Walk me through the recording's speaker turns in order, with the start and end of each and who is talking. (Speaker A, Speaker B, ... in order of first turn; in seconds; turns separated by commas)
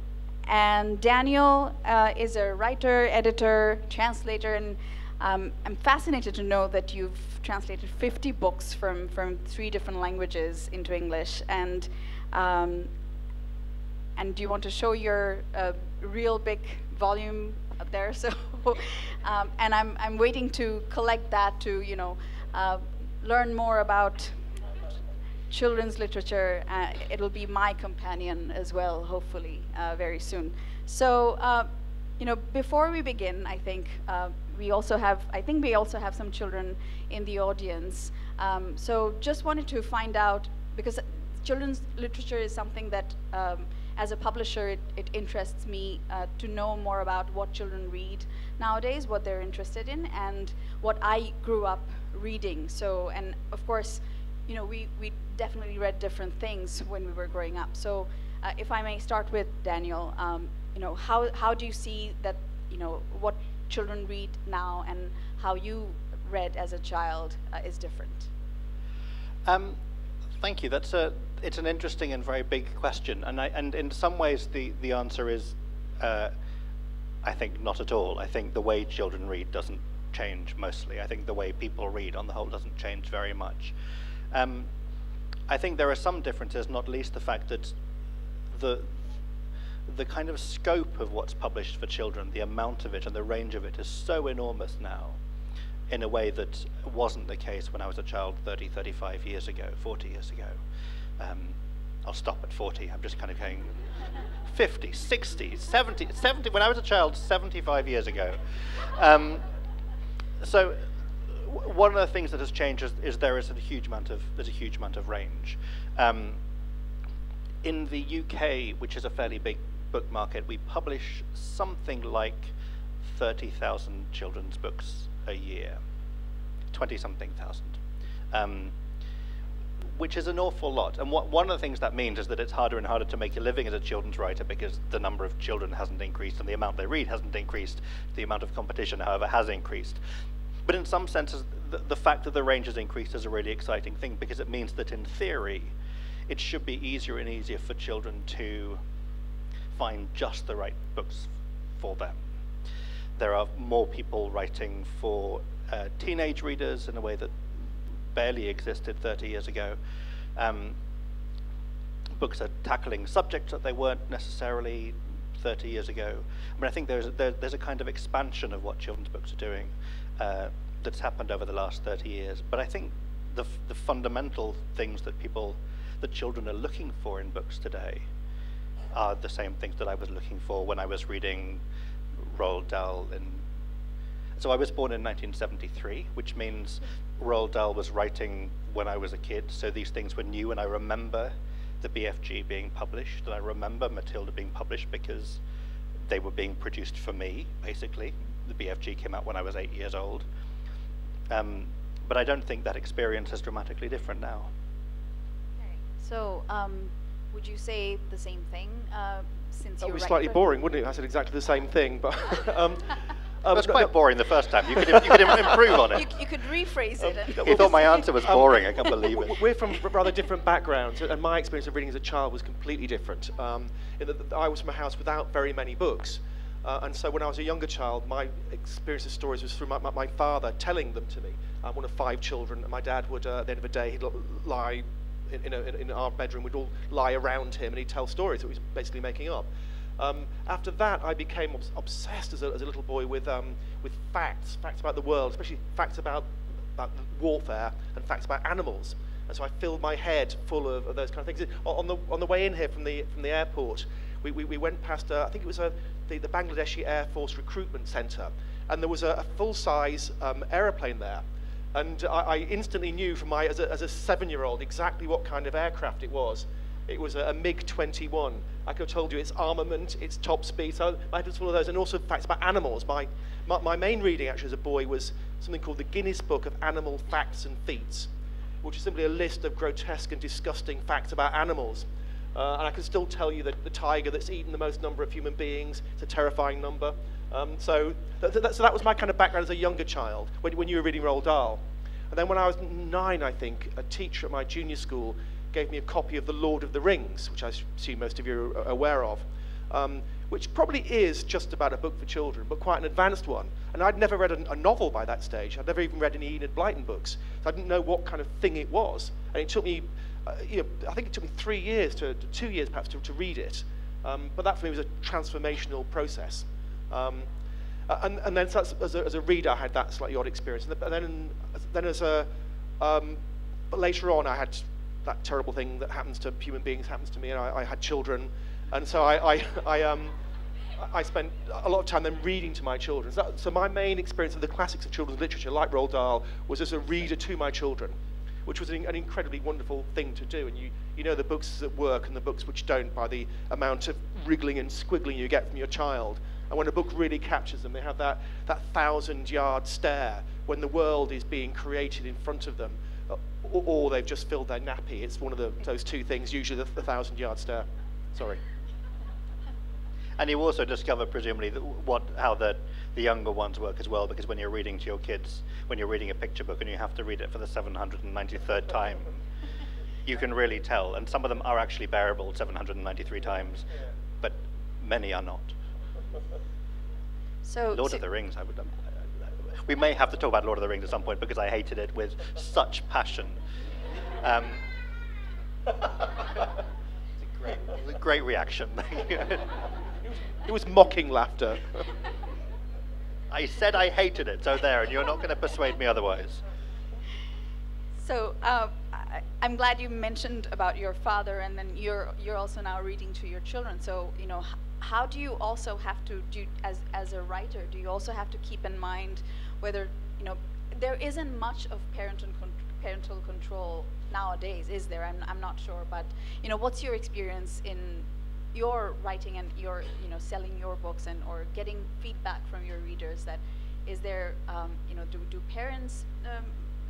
Speaker A: 0.5-12.9, Speaker A: 14.2-24.4, Speaker A: 25.5-68.3, Speaker B: 69.5-69.8, Speaker B: 70.4-76.3, Speaker B: 77.2-83.8, Speaker B: 84.3-84.7, Speaker B: 85.5-87.8, Speaker B: 88.5-89.0, Speaker B: 89.9-95.2, Speaker B: 95.9-100.6, Speaker B: 101.2-103.7, Speaker B: 104.5-109.4, Speaker B: 110.4-110.8, Speaker B: 111.3-116.4, Speaker B: 117.6-125.8, Speaker B: 126.7-127.8, Speaker B: 128.3-128.7, Speaker B: 129.9-140.0, Speaker B: 140.7-145.7, Speaker B: 146.3-148.8, Speaker B: 149.8-152.2, Speaker B: 153.2-157.4, Speaker B: 158.1-159.8, Speaker B: 160.4-160.8, Speaker B: 162.2-178.1, Speaker B: 178.9-181.6, Speaker B: 182.2-183.4, Speaker B: 184.4-195.4, Speaker B: 196.1-200.3, Speaker B: 201.3-204.5, Speaker A: 205.7-210.4, Speaker C: 209.8-213.9, Speaker B: 213.5-216.1, Speaker C: 214.7-215.6, Speaker A: 215.9-218.1, Speaker C: 217.3-239.5, Speaker B: 217.3-219.4, Speaker C: 240.0-278.1, Speaker C: 278.6-317.3, Speaker C: 317.9-322.3, Speaker C: 322.8-323.2, Speaker C: 323.7-330.1, Speaker C: 330.8-358.4, Speaker B: 360.2-369.2, Speaker B: 370.1-373.7, Speaker B: 374.2-375.6, Speaker A: 377.4-378.0, Speaker B: 377.7-378.7, Speaker B: 379.6-383.4, Speaker B: 384.2-384.6, Speaker B: 387.2-389.5, Speaker C: 390.1-391.9, Speaker B: 393.3-396.4, Speaker A: 398.0-426.6